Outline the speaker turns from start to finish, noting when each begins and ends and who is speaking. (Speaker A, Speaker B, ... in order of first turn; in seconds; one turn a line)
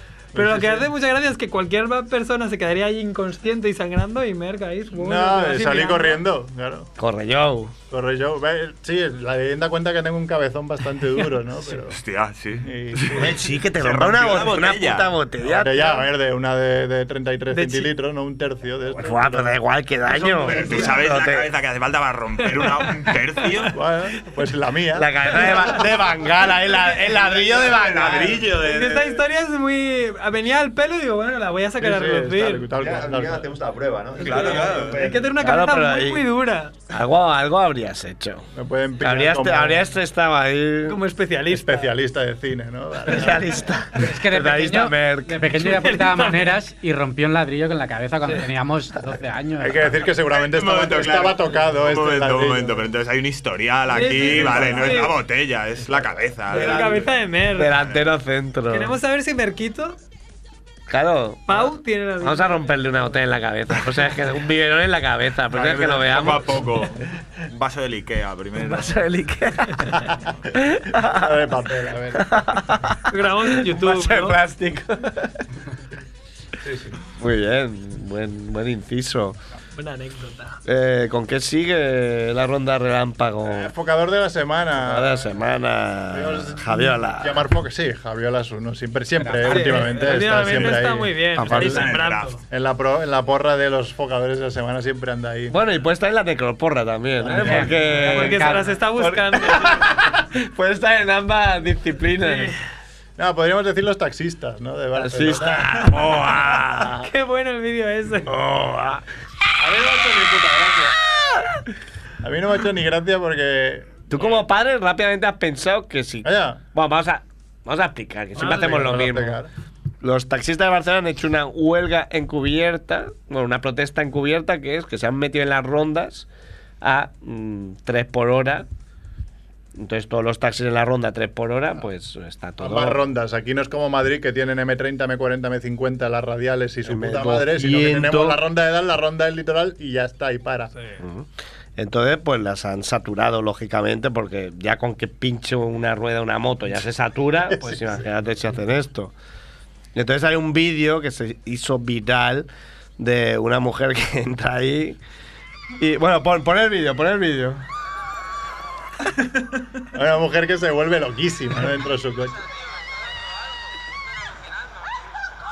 Speaker A: 0.3-0.9
Speaker B: 0.3-6.2
Speaker A: 4.9-6.9
Speaker C: 7.0-7.7
Speaker A: 7.9-12.0
Speaker D: 11.9-15.1
Speaker A: 12.6-13.3
Speaker C: 13.1-16.0
Speaker A: 15.4-20.9
Speaker B: 17.5-17.9
Speaker C: 19.0-21.5
Speaker D: 20.5-23.8
Speaker A: 23.7-25.9
Speaker C: 24.9-28.5
Speaker B: 25.3-25.8
Speaker E: 27.4-28.6
Speaker D: 28.0-29.1
Speaker B: 28.5-32.7
Speaker A: 31.8-33.5
Speaker E: 32.7-35.3
Speaker B: 34.2-36.7
Speaker D: 34.3-35.0
Speaker A: 34.5-34.8
Speaker C: 35.4-36.2
Speaker C: 36.9-38.5
Speaker A: 38.5-39.9
Speaker C: 39.0-41.0
Speaker B: 40.9-41.9
Speaker A: 41.5-43.5
Speaker C: 43.1-45.5
Speaker B: 43.1-43.3
Speaker F: 44.0-50.0
Speaker B: 45.5-46.6
Speaker A: 49.6-52.9
Speaker D: 50.3-57.0
Speaker B: 53.9-55.1
Speaker A: 54.4-54.9
Speaker C: 54.5-54.9
Speaker B: 56.5-57.7
Speaker C: 56.5-59.0
Speaker D: 57.8-58.1
Speaker B: 58.7-60.0
Speaker C: 60.9-66.8
Speaker B: 61.5-63.2
Speaker D: 65.5-69.0
Speaker C: 68.6-71.4
Speaker A: 71.0-72.4
Speaker C: 72.2-75.3
Speaker B: 73.1-74.4
Speaker A: 76.6-77.0
Speaker C: 77.2-79.4
Speaker B: 79.8-80.6
Speaker C: 80.6-83.7
Speaker A: 83.4-85.4
Speaker C: 84.8-87.5
Speaker A: 86.1-91.6
Speaker F: 89.2-89.8
Speaker B: 89.4-92.4
Speaker C: 91.4-91.8
Speaker D: 91.5-92.4
Speaker A: 92.5-95.6
Speaker C: 95.5-102.5
Speaker A: 97.2-97.8
Speaker F: 97.3-98.8
Speaker B: 98.0-99.8
Speaker B: 102.2-102.5
Speaker A: 103.2-105.9
Speaker C: 105.0-107.1
Speaker B: 106.9-108.3
Speaker C: 108.3-109.0
Speaker B: 109.6-110.7
Speaker A: 109.8-110.9
Speaker A: 112.2-114.3
Speaker C: 114.1-119.4
Speaker A: 116.2-116.6
Speaker A: 118.3-119.5
Speaker B: 118.3-119.0
Speaker C: 120.0-126.3
Speaker C: 126.8-128.7
Speaker C: 129.7-133.0
Speaker A: 132.6-140.7
Speaker C: 136.8-138.4
Speaker B: 140.7-141.0
Speaker C: 141.0-149.1
Speaker C: 149.9-155.0
Speaker C: 155.8-157.6
Speaker A: 159.9-162.4